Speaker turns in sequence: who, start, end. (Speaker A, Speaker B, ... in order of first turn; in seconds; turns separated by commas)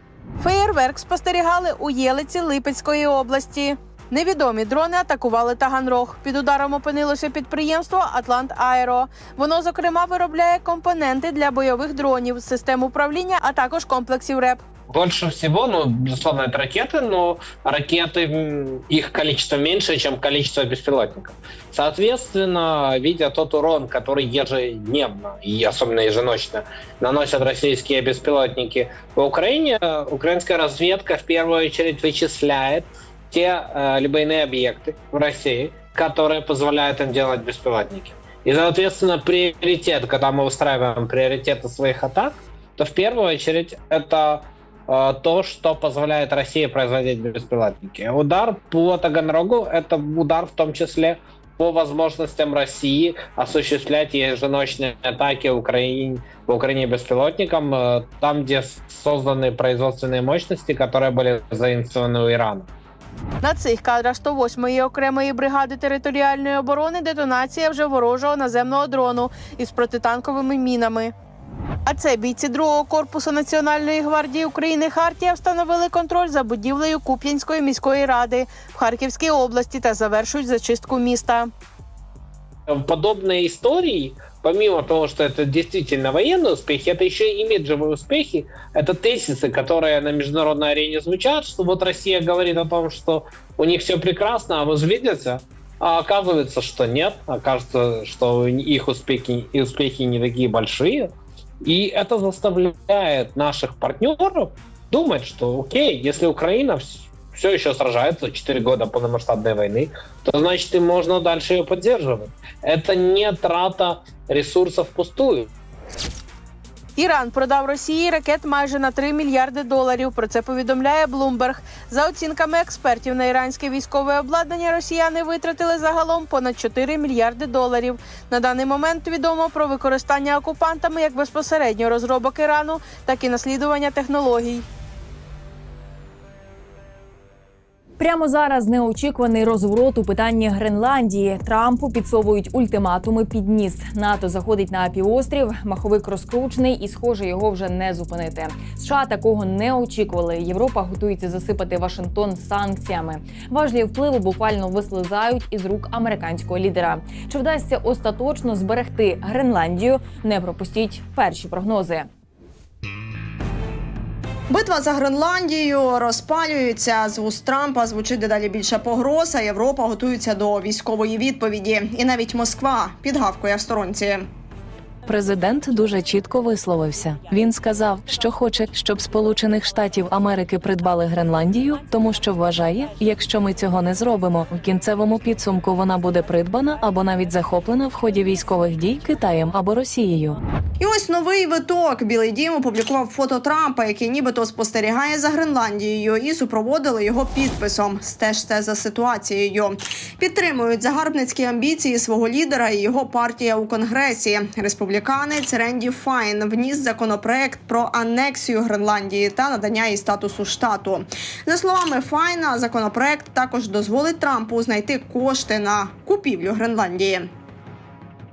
Speaker A: 0.4-14.6, Speaker B: 14.9-62.7, Speaker A: 63.4-71.1, Speaker A: 71.9-81.5, Speaker B: 82.7-101.1, Speaker B: 101.6-115.5, Speaker A: 117.0-134.6, Speaker C: 138.0-162.1, Speaker D: 164.5-174.3, Speaker E: 175.1-190.4, Speaker D: 190.8-217.3